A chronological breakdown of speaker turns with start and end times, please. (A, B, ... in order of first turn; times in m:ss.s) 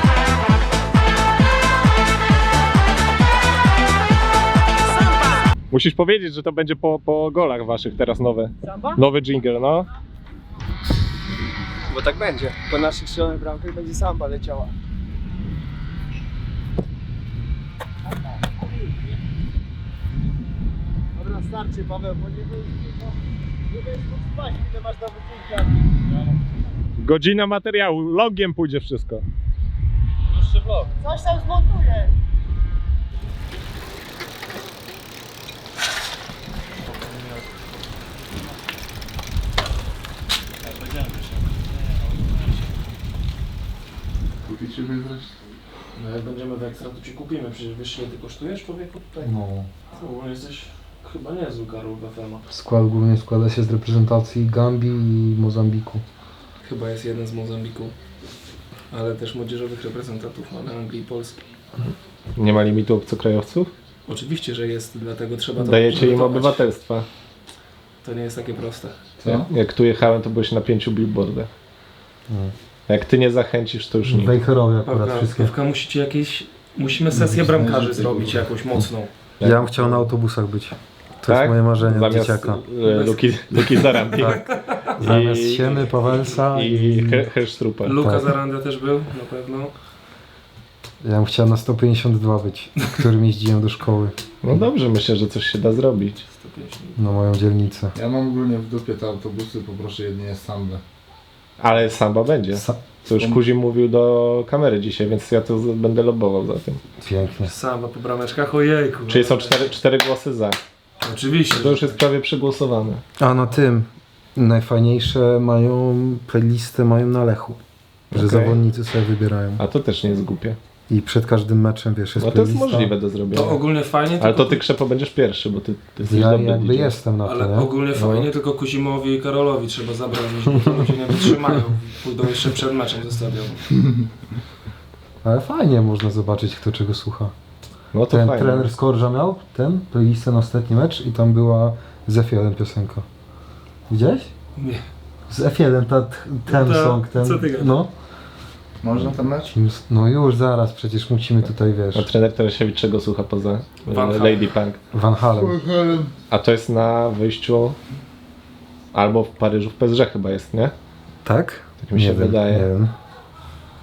0:05.7-0:09.9 A
0:11.9-0:14.7 B
0:21.2-0:23.0 B
0:23.7-0:25.9 B
0:27.0-0:29.2 A
0:31.0-0:32.1 B
0:40.7-0:41.4 C
0:44.4-0:45.4 D
0:45.9-0:49.3 C
0:49.2-0:49.7 E
0:49.9-0:52.4 C
0:52.5-0:56.0 E
0:56.6-0:57.9 C
0:58.9-1:01.4 C
1:02.4-1:03.7 A
1:04.0-1:06.7 C
1:05.6-1:07.1 A
1:08.0-1:09.0 C
1:09.2-1:11.5 A
1:12.3-1:12.5 E
1:12.9-1:14.4 A
1:14.0-1:15.5 E
1:14.8-1:19.1 C
1:17.1-1:17.6 E
1:19.4-1:20.1 A
1:19.4-1:22.6 E
1:21.3-1:28.0 A
1:22.8-1:24.7 C
1:24.9-1:27.3 E
1:27.8-1:29.7 C
1:28.0-1:28.3 E
1:31.0-1:34.6 E
1:34.4-1:36.2 A
1:36.2-1:37.0 C
1:37.0-1:37.9 E
1:37.9-1:40.8 D
1:41.6-1:46.8 A
1:42.5-1:42.8 E
1:43.2-1:43.4 D
1:47.0-1:47.5 E
1:47.4-1:49.6 C
1:49.1-1:50.6 A
1:51.0-1:52.0 C
1:51.5-1:53.0 A
1:53.2-1:57.6 E
1:58.1-1:59.6 E
1:58.1-1:58.6 A
1:59.6-2:00.6 A
2:00.9-2:02.9 E
2:02.2-2:03.6 A
2:03.3-2:04.6 C
2:04.2-2:07.0 A
2:06.0-2:08.3 E
2:07.2-2:13.6 C
2:15.2-2:17.3 E
2:17.9-2:18.8 A
2:18.0-2:23.0 E
2:23.9-2:24.3 E
2:24.6-2:24.8 C
2:25.3-2:27.9 E
2:26.5-2:27.8 C
2:28.8-2:29.5 D
2:29.0-2:32.1 E
2:31.9-2:34.8 A
2:33.8-2:34.5 C
2:34.9-2:35.6 E
2:35.4-2:36.1 D
2:36.3-2:37.8 A
2:38.9-2:40.7 A
2:41.2-2:42.9 E
2:41.8-2:42.7 A